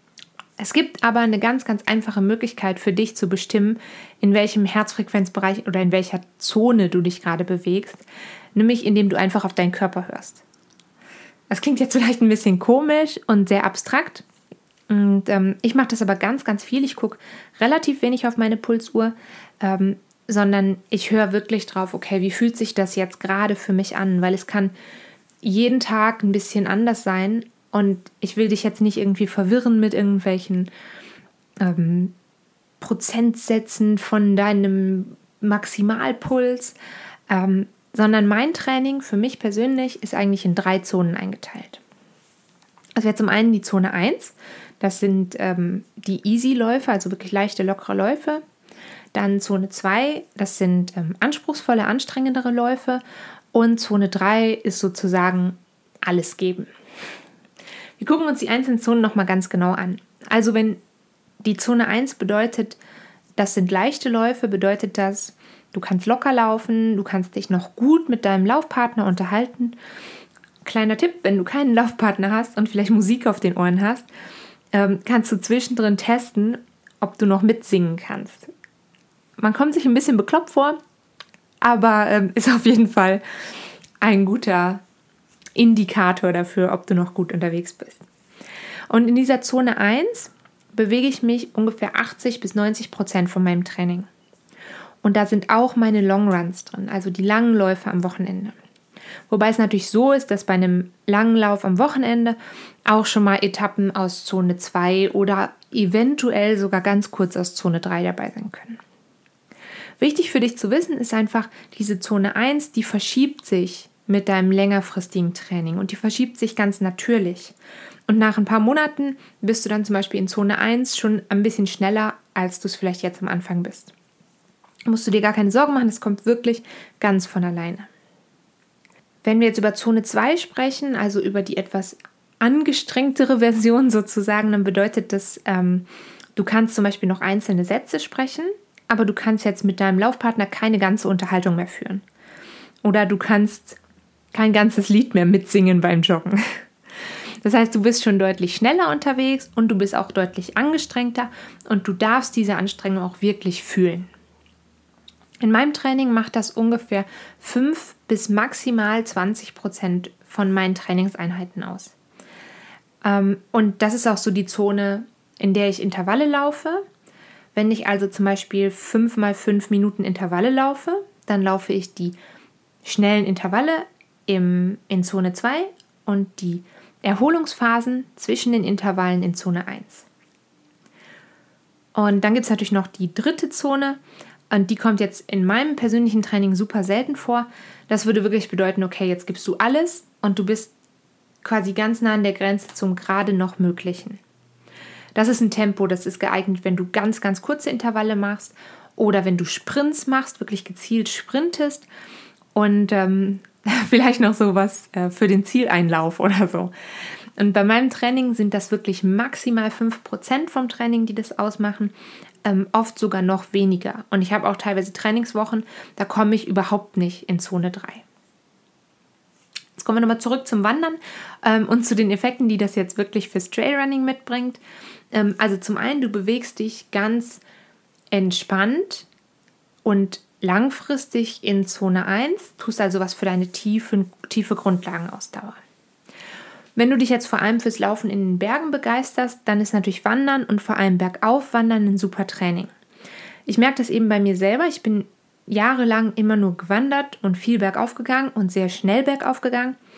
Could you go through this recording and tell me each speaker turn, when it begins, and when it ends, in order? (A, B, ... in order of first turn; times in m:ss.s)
0:00.6-0:08.0 A
0:08.5-0:10.4 A
0:11.5-0:14.2 A
0:14.9-0:24.7 A
0:25.4-0:30.7 A
0:31.6-0:32.1 A
0:32.8-0:36.8 A
0:37.3-0:41.8 A
0:43.0-0:48.4 A
0:49.1-0:56.7 A
0:58.0-1:00.8 A
1:01.4-1:02.8 A
1:03.4-1:09.8 A
1:10.6-1:14.1 A
1:14.7-1:18.5 A
1:19.4-1:20.8 A
1:21.6-1:23.2 A
1:24.0-1:24.8 A
1:25.6-1:28.0 A
1:28.9-1:34.1 A
1:35.0-1:38.5 A
1:39.3-1:48.8 A
1:50.0-1:57.5 A
1:58.1-2:03.9 A
2:04.8-2:07.9 A
2:09.2-2:22.0 A
2:22.8-2:23.8 A
2:24.3-2:26.6 A
2:27.4-2:34.1 A
2:35.4-2:41.9 A
2:43.0-2:46.8 A
2:47.5-2:52.2 A
2:52.8-3:00.1 A
3:01.9-3:04.0 A
3:04.5-3:10.7 A
3:11.4-3:14.2 A
3:15.1-3:21.8 A
3:22.5-3:26.7 A
3:27.4-3:31.9 A
3:32.4-3:38.0 A
3:39.8-3:44.6 A
3:45.1-3:47.4 A
3:48.1-3:49.1 A
3:49.8-3:55.6 A
3:56.8-4:02.7 A
4:03.4-4:09.8 A